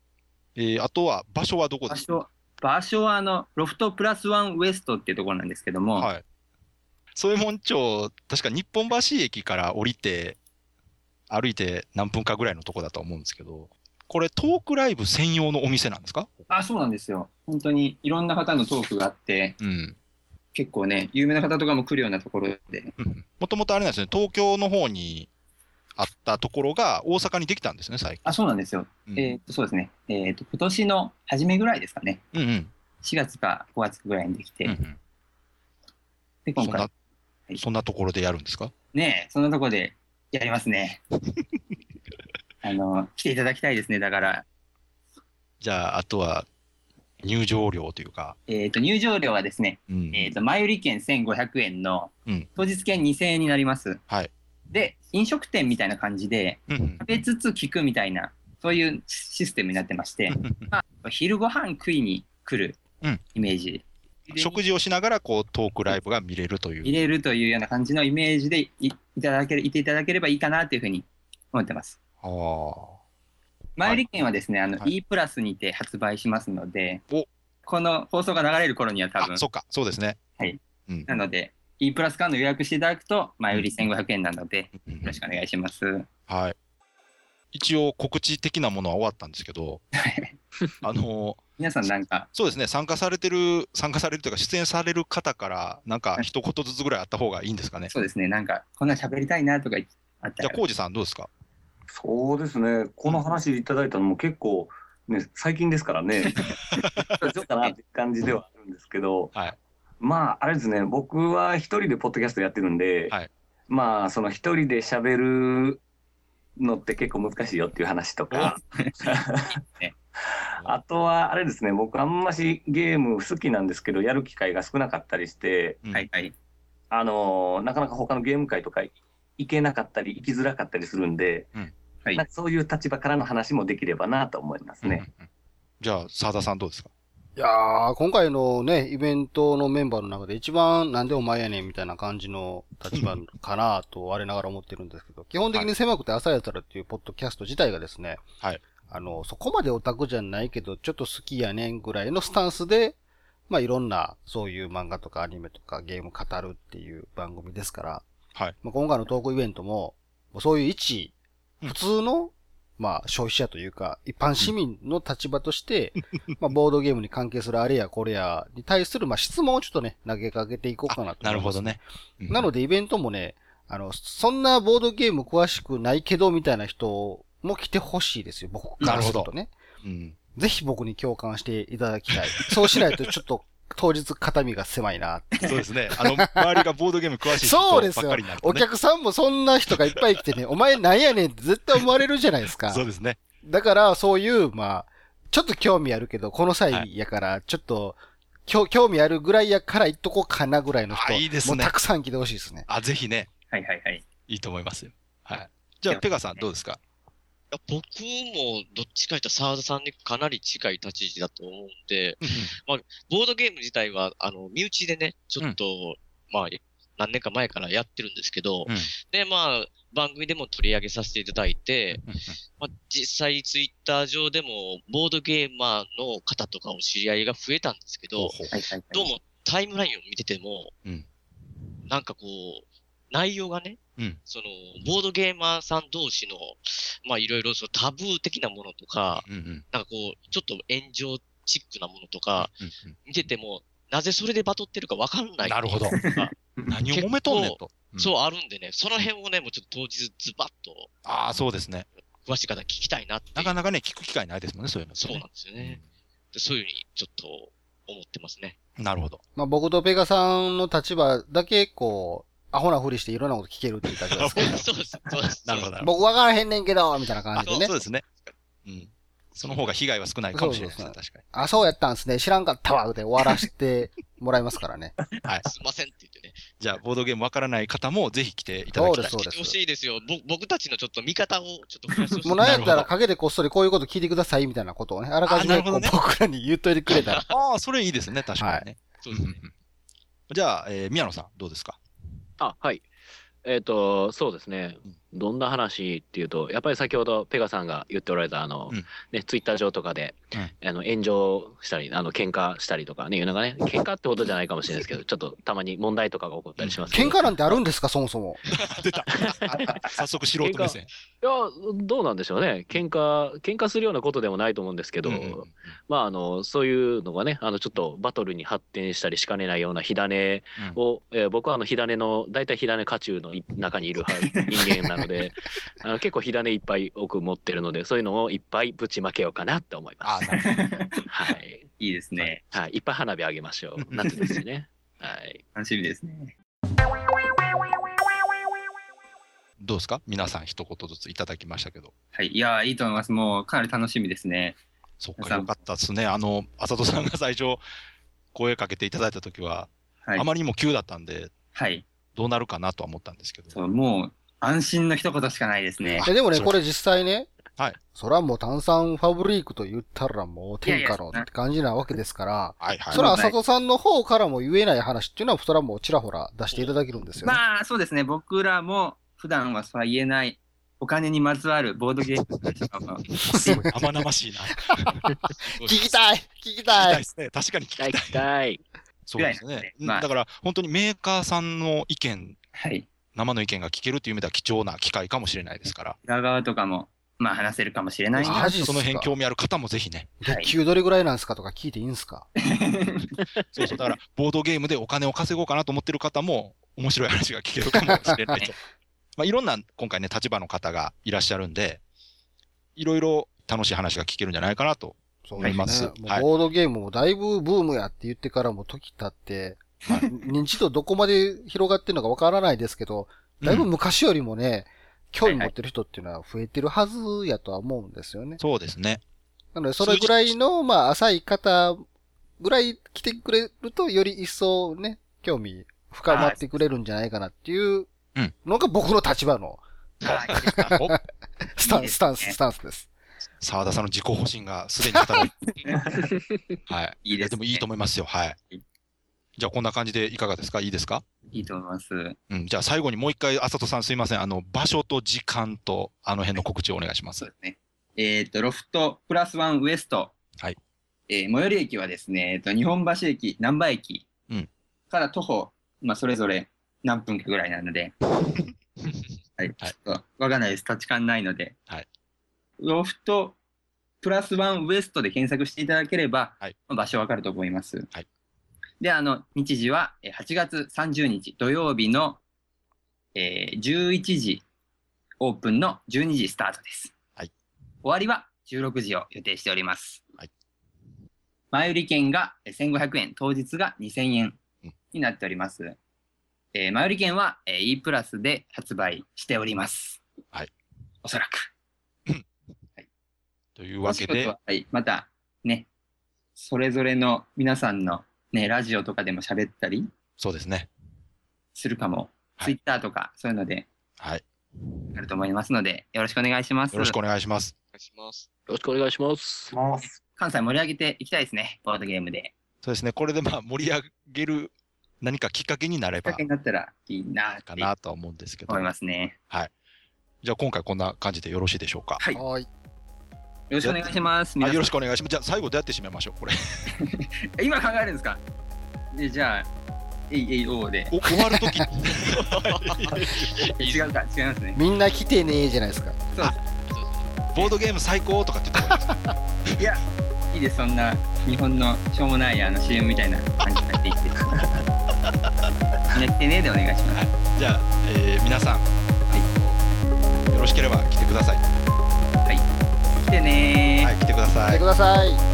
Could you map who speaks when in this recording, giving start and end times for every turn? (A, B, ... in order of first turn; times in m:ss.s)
0:00.6-0:02.0 A
0:01.9-0:06.1 B
0:06.0-0:06.2 A
0:07.1-0:10.4 A
0:11.3-0:16.3 A
0:16.5-0:19.6 B
0:19.6-0:20.0 A
0:20.5-0:22.9 B
0:23.0-0:25.3 A
0:26.0-0:28.4 A
0:28.2-0:32.2 B
0:29.1-0:29.3 A
0:32.3-0:32.7 A
0:33.0-0:34.8 B
0:34.6-0:35.0 A
0:36.4-0:36.9 B
0:36.6-0:36.9 A
0:37.6-0:38.7 A
0:38.9-0:41.0 B
0:42.6-0:44.4 B
0:45.6-0:46.4 A
0:47.2-0:48.4 A
0:48.5-0:54.0 B
0:49.9-0:50.3 A
0:54.7-1:02.8 B
0:56.7-0:57.1 A
1:00.3-1:00.7 A
1:03.3-1:04.6 B
1:04.3-1:07.0 A
1:06.8-1:12.0 B
1:12.2-1:13.0 A
1:13.8-1:17.0 B
1:13.8-1:14.1 A
1:17.6-1:19.4 B
1:19.2-1:20.2 A
1:20.4-1:26.1 B
1:23.5-1:23.9 A
1:24.8-1:25.2 A
1:26.3-1:26.5 A
1:27.5-1:29.8 A
1:30.0-1:30.4 B
1:30.8-1:31.4 A
1:31.6-1:32.3 B
1:32.3-1:37.9 A
1:37.9-1:40.6 B
1:40.4-1:41.3 A
1:41.9-1:46.4 C
1:47.2-1:47.7 B
1:47.2-1:49.3 C
1:50.0-1:53.1 C
1:53.7-1:55.8 C
1:56.6-1:59.6 C
1:58.4-1:58.9 B
2:00.3-2:05.8 C
2:05.9-2:06.3 B
2:06.9-2:11.5 C
2:12.2-2:15.0 C
2:14.8-2:15.3 A
2:15.8-2:16.9 A
2:17.4-2:28.2 D
2:28.8-2:33.0 D
2:33.5-2:38.0 D
2:38.6-2:41.1 D
2:41.6-2:59.6 D
2:50.9-2:52.5 A
2:58.8-2:59.3 A
2:59.8-3:00.2 A
3:00.4-3:06.6 D
3:05.4-3:08.6 A
3:07.4-3:12.8 D
3:12.7-3:13.2 A
3:13.4-3:22.7 D
3:20.9-3:21.7 A
3:22.7-3:23.3 A
3:23.5-3:24.0 B
3:24.3-3:26.8 A
3:25.9-3:26.4 B
3:27.5-3:42.0 E
3:32.2-3:32.5 A
3:41.9-3:42.4 A
3:42.6-3:48.3 E
3:48.1-3:48.5 A
3:48.5-3:49.1 B
3:48.9-3:50.7 E
3:51.9-4:02.5 E
3:59.2-3:59.6 A
4:02.4-4:03.0 A
4:03.0-4:06.3 E
4:05.4-4:06.0 A
4:06.0-4:06.7 B
4:06.7-4:08.1 A
4:06.9-4:10.9 E
4:11.0-4:11.9 A
4:12.1-4:13.6 E
4:13.3-4:15.8 A
4:14.9-4:15.8 E
4:16.3-4:18.5 E
4:18.8-4:19.2 A
4:19.4-4:24.6 D
4:24.1-4:24.6 A
4:24.3-4:25.7 E
4:25.4-4:25.9 A
4:25.8-4:27.7 D
4:27.4-4:28.3 E
4:27.6-4:28.0 A
4:28.6-4:31.2 A
4:29.4-4:29.7 E
4:30.3-4:35.0 D
4:35.4-4:36.4 E
4:36.6-4:39.2 A
4:38.7-4:39.6 D
4:39.1-4:42.8 E
4:42.2-4:47.3 D
4:42.4-4:42.9 A
4:45.2-4:46.0 A
4:47.3-4:49.5 A
4:48.4-4:48.6 D
4:49.0-4:49.4 E
4:50.3-4:51.8 A
4:52.4-4:52.8 F
4:53.4-5:07.2 F
5:06.6-5:06.9 A
5:06.9-5:08.4 D
5:08.5-5:10.9 A
5:09.1-5:09.8 F
5:10.4-5:30.4 F
5:15.0-5:15.7 A
5:24.2-5:24.9 B
5:30.0-5:30.4 A
5:30.3-5:32.4 B
5:31.0-5:35.4 F
5:35.5-5:36.3 B
5:39.6-5:41.9 A
5:42.1-5:44.6 B
5:45.0-5:47.6 A
5:45.2-5:45.5 B
5:48.3-5:51.3 A
5:51.5-5:51.8 B
5:52.1-5:53.5 A
5:53.5-5:56.1 B
5:55.8-5:56.6 A
5:56.0-5:57.3 D
5:57.9-6:07.4 D
6:00.6-6:01.3 B
6:02.6-6:03.1 A
6:02.9-6:03.4 B
6:07.2-6:13.7 B
6:13.1-6:15.1 A
6:13.4-6:13.9 D
6:15.1-6:17.0 D
6:15.4-6:16.0 E
6:16.7-6:18.3 A
6:17.8-6:18.6 F
6:19.0-6:22.4 A
6:19.2-6:20.1 B
6:22.5-6:22.9 B
6:23.1-6:26.0 A
6:26.0-6:28.5 B
6:28.2-6:30.1 A
6:28.2-6:29.2 D
6:30.2-6:32.3 D
6:30.2-6:30.5 B
6:32.4-6:33.1 B
6:33.5-6:38.5 A
6:37.7-6:38.5 D
6:39.2-6:41.8 A
6:42.8-6:46.3 A
6:45.2-6:58.4 D
6:53.4-6:53.7 A
6:55.2-6:55.5 B
6:58.4-6:59.0 A
6:59.5-7:01.8 D
6:59.8-7:00.3 A
7:02.4-7:07.9 D
7:06.1-7:06.4 B
7:08.4-7:09.6 D
7:10.0-7:10.5 B
7:10.1-7:10.9 A
7:10.3-7:11.0 D
7:11.6-7:12.9 D
7:11.6-7:12.4 B
7:13.4-7:15.4 A
7:15.0-7:15.3 D
7:15.6-7:16.0 B
7:16.7-7:18.4 A
7:17.0-7:17.6 B
7:19.4-7:21.0 A
7:21.3-7:22.2 B
7:22.3-7:27.2 A
7:27.2-7:30.1 B
7:31.1-7:34.0 B
7:34.9-7:37.9 B
7:39.4-7:41.5 B
7:42.6-7:43.4 B
7:44.0-7:47.9 B
7:48.8-7:52.2 B
7:53.1-7:54.4 B
7:55.2-7:56.9 B
7:57.8-8:00.0 B
8:01.5-8:04.4 B
8:04.9-8:05.8 B
8:06.5-8:10.0 B
8:11.0-8:11.4 B
8:13.6-8:14.3 A
8:13.8-8:15.7 B
8:16.4-8:19.9 B
8:20.2-8:20.7 A
8:21.5-8:23.7 B
8:24.0-8:24.2 A
8:25.0-8:27.0 B
8:26.7-8:27.5 A
8:27.7-8:28.3 E
8:28.5-8:29.6 F
8:29.5-8:30.0 C
8:30.2-8:32.3 B
8:32.6-8:36.2 A
8:36.0-8:37.7 B
8:37.4-8:38.7 A
8:38.5-8:39.2 B
8:40.2-8:42.0 A
8:42.0-8:42.2 B
8:42.1-8:42.5 D
8:43.5-8:44.7 B
8:43.6-8:46.7 A
8:46.9-8:48.2 B
8:48.9-8:49.5 B
8:50.1-8:50.9 B
8:50.9-8:53.4 A
8:52.1-8:53.9 E
8:53.6-8:54.6 B
8:54.5-8:56.0 D
8:56.7-8:57.6 E
8:57.3-8:59.6 A
8:59.6-9:04.6 B
9:05.1-9:06.0 A
9:05.9-9:07.0 B
9:06.9-9:09.6 A
9:10.3-9:11.4 A
9:12.2-9:13.9 B
9:13.8-9:14.7 A
9:14.5-9:15.2 D